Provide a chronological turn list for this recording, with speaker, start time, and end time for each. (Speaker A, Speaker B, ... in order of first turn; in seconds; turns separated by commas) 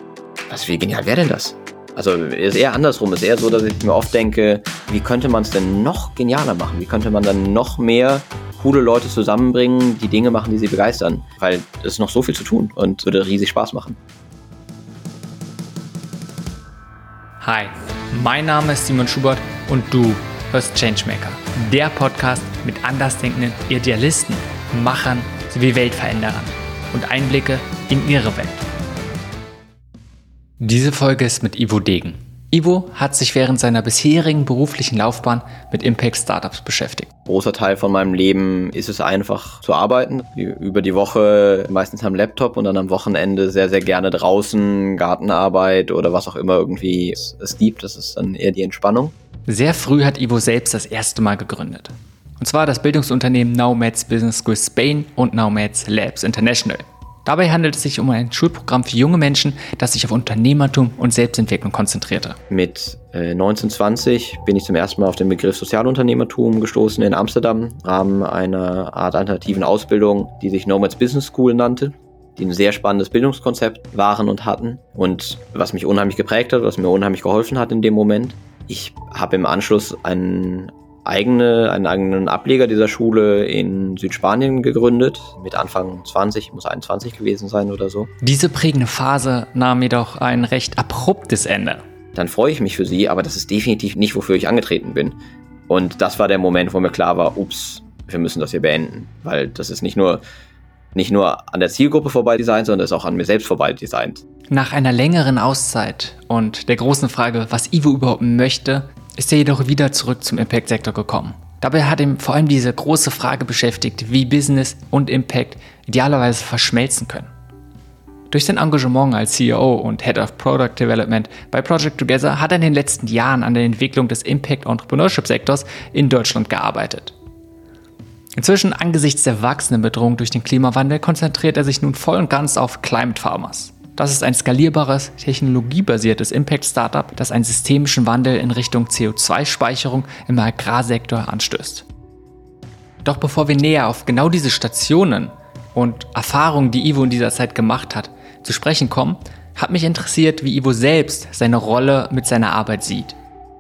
Speaker A: 0.5-14.0, Speaker B: 17.4-28.6, Speaker B: 30.6-37.1, Speaker A: 37.3-49.1, Speaker B: 49.5-62.4, Speaker A: 62.5-88.1, Speaker B: 88.2-91.8, Speaker A: 92.1-95.2, Speaker A: 95.7-100.2, Speaker A: 100.9-104.2, Speaker B: 104.5-117.3, Speaker B: 118.3-127.1, Speaker B: 128.4-141.8, Speaker B: 143.0-153.2